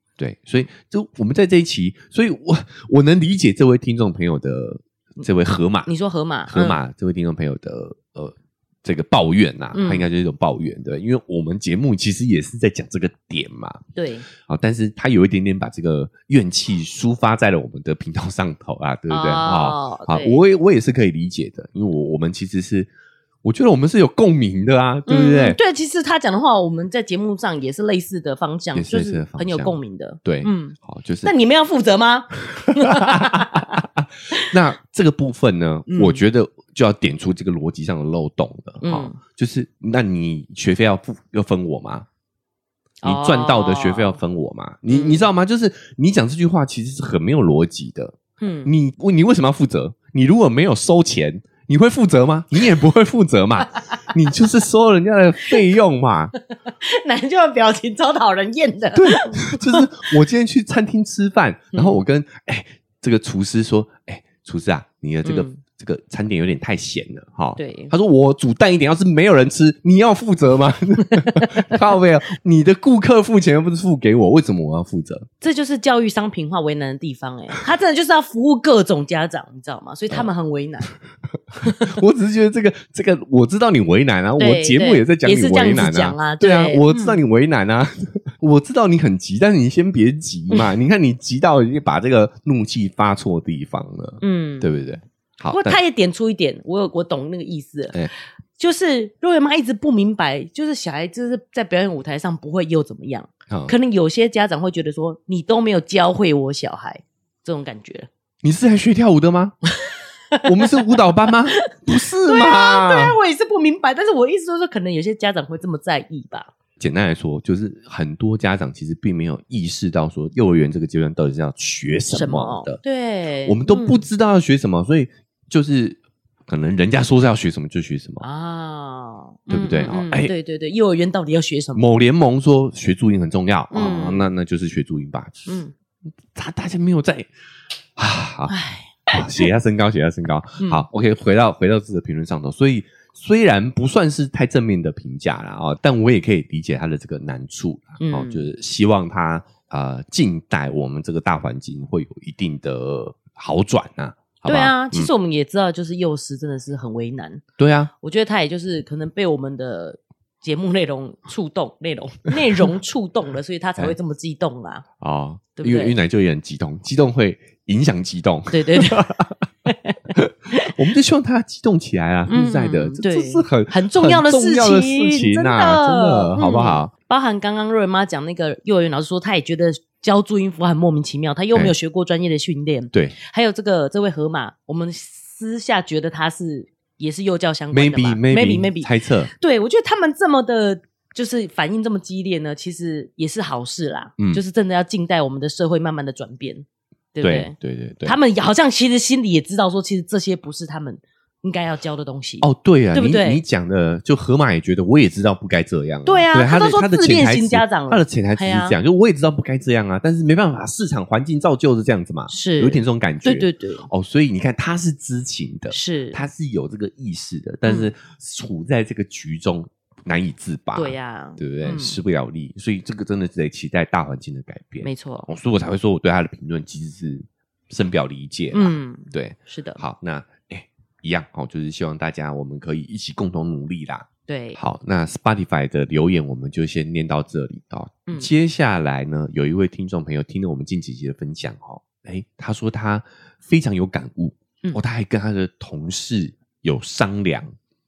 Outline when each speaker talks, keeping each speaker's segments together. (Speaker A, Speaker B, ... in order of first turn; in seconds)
Speaker A: 0.2-5.9, 6.5-13.8, 14.4-22.9, 23.4-25.6, 28.7-31.3, 32.8-42.1, 43.0-56.3, 59.0-75.3, 81.6-95.8, 103.5-103.7, 108.4-109.6, 110.4-113.2, 116.8-122.8, 123.5-128.2, 129.5-130.3, 131.8-135.5, 136.3-137.3, 138.0-138.6, 139.1-155.1, 157.6-157.9, 165.0-169.4, 170.1-176.9, 187.7-189.3, 197.2-198.2, 202.4-247.5
Speaker B: 5.9-6.8, 9.7-10.1, 14.0-14.3, 19.1-20.4, 25.1-34.5, 35.9-36.2, 38.8-39.2, 43.0-44.2, 44.9-45.3, 48.4-48.7, 56.8-59.9, 61.7-62.0, 65.2-65.6, 67.6-67.9, 71.1-71.7, 75.4-80.9, 81.6-81.9, 84.4-87.2, 94.2-94.7, 95.5-98.1, 98.6-108.1, 109.8-110.9, 112.2-116.5, 122.1-124.0, 128.2-131.8, 133.7-134.3, 135.5-135.7, 138.5-139.5, 140.6-140.8, 148.0-148.5, 154.5-157.4, 158.0-164.8, 165.6-166.0, 168.5-169.0, 169.7-170.0, 172.3-203.4, 206.1-208.8, 212.3-213.9, 215.7-216.2, 217.7-217.9, 220.8-222.0, 224.8-225.3, 228.5-229.8, 234.3-234.6